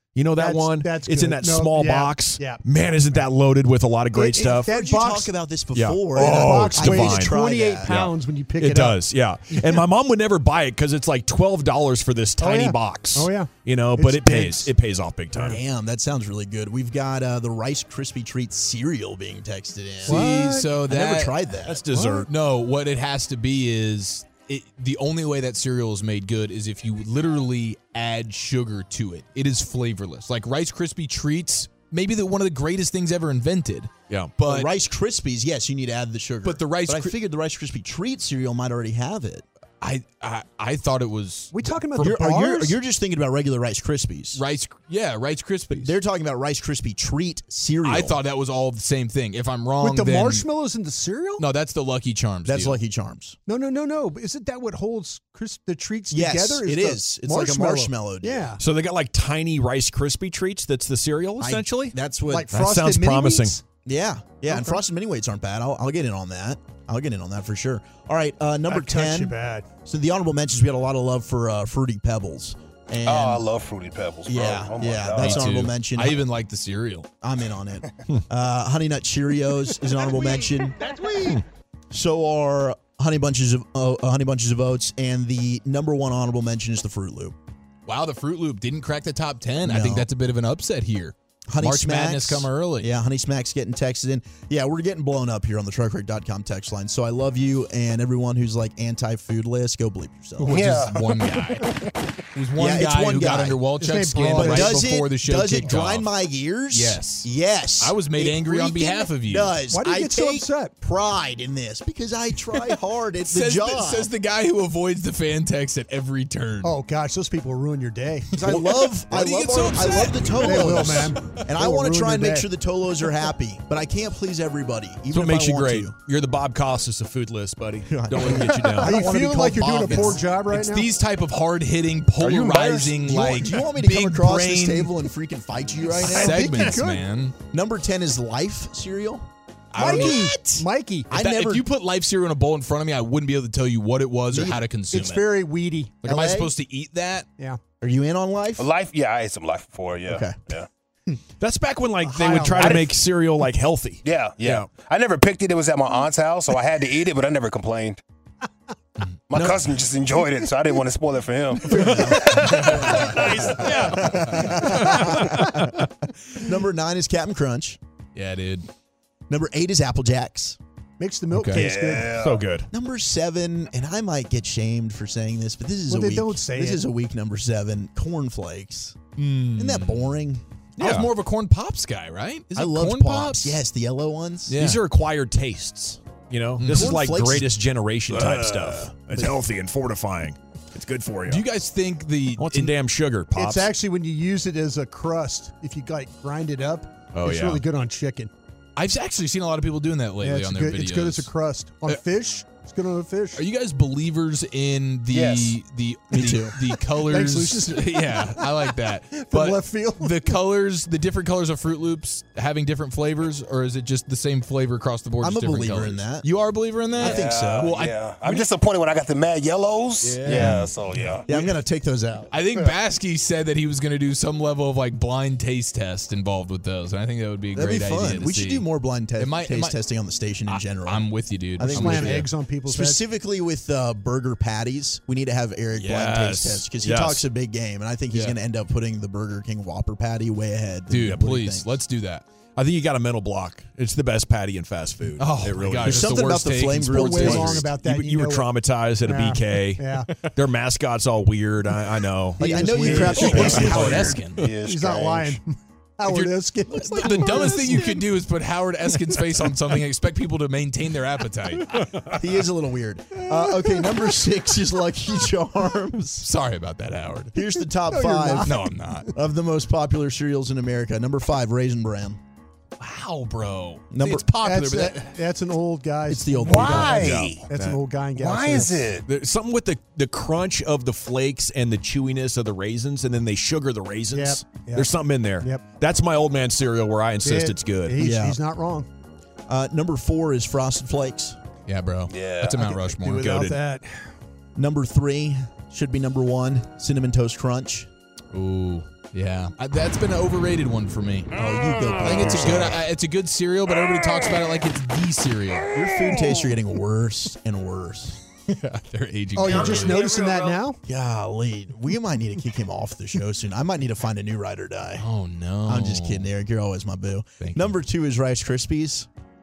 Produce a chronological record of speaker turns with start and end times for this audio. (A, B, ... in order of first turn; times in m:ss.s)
0:00.1-0:04.7 A
0:00.4-0:03.2 B
0:04.1-0:05.3 B
0:04.4-0:08.0 C
0:05.7-0:15.6 A
0:06.1-0:09.8 B
0:12.4-0:14.7 B
0:15.4-0:21.9 C
0:20.0-0:21.4 D
0:20.0-0:20.7 B
0:21.6-0:22.3 A
0:21.9-0:22.3 B
0:22.2-0:34.7 D
0:34.1-0:34.3 A
0:34.4-0:39.4 C
0:36.4-0:37.2 D
0:39.8-0:41.9 D
0:41.5-0:42.8 B
0:42.0-0:44.4 C
0:44.3-0:45.9 D
0:45.7-0:48.2 C
0:47.8-0:50.4 D
0:49.8-0:51.4 B
0:51.4-0:52.8 D
0:52.4-0:53.4 C
0:53.4-0:58.6 B
0:56.1-0:58.5 C
0:58.6-1:02.0 A
1:01.4-1:02.5 C
1:02.3-1:03.6 B
1:02.5-1:03.6 A
1:03.8-1:13.4 C
1:04.5-1:04.8 B
1:08.7-1:09.7 B
1:13.0-1:15.4 E
1:14.2-1:16.2 C
1:15.2-1:17.1 D
1:17.2-1:20.8 C
1:21.9-1:27.4 C
1:27.8-1:32.9 D
1:29.6-1:30.1 C
1:31.5-1:40.6 C
1:40.4-1:41.8 D
1:40.5-1:41.2 E
1:42.3-1:46.1 D
1:42.6-1:43.6 C
1:43.8-1:44.8 B
1:44.3-1:54.1 C
1:46.7-1:49.6 D
1:49.7-1:50.7 B
1:53.2-1:56.7 D
1:56.6-1:58.4 B
1:58.3-2:05.9 C
1:58.4-2:01.3 D
2:00.4-2:02.5 B
2:05.1-2:09.1 A
2:07.9-2:08.8 C
2:08.3-2:10.9 B
2:08.8-2:15.0 D
2:09.8-2:10.1 C
2:12.3-2:12.6 E
2:12.4-2:16.8 C
2:16.0-2:17.3 D
2:16.0-2:17.1 B
2:17.5-2:20.2 C
2:19.7-2:25.2 D
2:19.8-2:21.2 B
2:21.1-2:21.7 C
2:24.3-2:24.6 C
2:24.9-2:26.0 B
2:26.0-2:27.3 D
2:26.0-2:26.5 C
2:27.8-2:28.7 C
2:28.6-2:30.7 E
2:30.0-2:30.4 C
2:31.4-2:34.7 A
2:32.0-2:32.9 B
2:34.0-2:38.0 E
2:39.3-2:43.8 E
2:41.7-2:43.0 C
2:41.9-2:42.2 A
2:42.4-2:44.8 D
2:43.7-2:47.8 C
2:44.7-2:45.8 A
2:44.7-2:45.2 B
2:48.1-2:48.7 D
2:49.3-2:50.6 C
2:51.0-2:52.2 B
2:51.3-2:51.6 D
2:51.6-2:52.4 E
2:52.1-2:52.7 A
2:52.7-3:00.4 C
2:55.9-2:56.8 B
2:59.2-2:59.7 A
2:59.5-2:59.9 D
3:00.8-3:03.6 D
3:00.8-3:01.1 A
3:02.5-3:04.5 C
3:04.5-3:04.8 D
3:04.5-3:11.4 A
3:06.6-3:07.0 D
3:06.6-3:07.5 C
3:08.1-3:09.4 C
3:11.3-3:12.7 D
3:12.4-3:13.7 A
3:13.3-3:18.3 B
3:17.1-3:17.6 A
3:18.8-3:21.3 D
3:20.2-3:23.4 B
3:23.3-3:38.5 D
3:25.1-3:25.6 E
3:26.1-3:26.6 C
3:26.9-3:30.4 B
3:35.2-3:36.3 C
3:37.0-3:37.7 C
3:37.0-3:41.2 E
3:40.0-3:41.5 D
3:40.3-3:40.7 A
3:40.4-3:40.6 C
3:41.2-3:42.3 C
3:42.3-3:49.8 D
3:47.5-4:01.7 C
3:50.5-3:52.3 D
3:51.6-3:53.0 B
3:55.8-3:56.6 D
3:56.7-3:57.2 A
3:58.1-3:58.4 D
4:00.9-4:02.2 D
4:02.6-4:06.2 A
4:05.2-4:07.6 D
4:05.8-4:07.7 C
4:06.9-4:10.1 B
4:07.2-4:14.2 A
4:12.4-4:18.0 B
4:12.4-4:14.2 C
4:12.8-4:14.5 D
4:13.0-4:15.4 E
4:16.0-4:21.8 D
4:22.0-4:26.3 C
4:23.3-4:24.1 B
4:26.2-4:27.3 D
4:27.3-4:32.2 C
4:27.9-4:28.7 B
4:28.4-4:29.1 D
4:32.8-4:35.1 D
4:33.9-4:34.3 C
4:34.4-4:38.8 B
4:36.1-4:37.1 C
4:36.4-4:37.5 E
4:36.9-4:37.8 A
4:38.2-4:39.0 E
4:39.0-4:48.0 A
4:44.1-4:45.7 B
4:47.2-4:48.9 B
4:48.0-4:48.4 C
4:49.5-4:51.4 C
4:51.7-4:53.5 D
4:52.1-4:52.6 E
4:52.5-4:54.1 B
4:53.3-4:53.5 A
4:54.6-4:57.9 C
4:58.3-5:01.3 D
5:01.3-5:02.8 C
5:02.0-5:05.7 D
5:05.7-5:08.2 C
5:08.5-5:10.2 D
5:09.4-5:10.8 B
5:10.8-5:15.1 C
5:15.0-5:16.3 D
5:15.6-5:19.1 C
5:17.4-5:17.8 D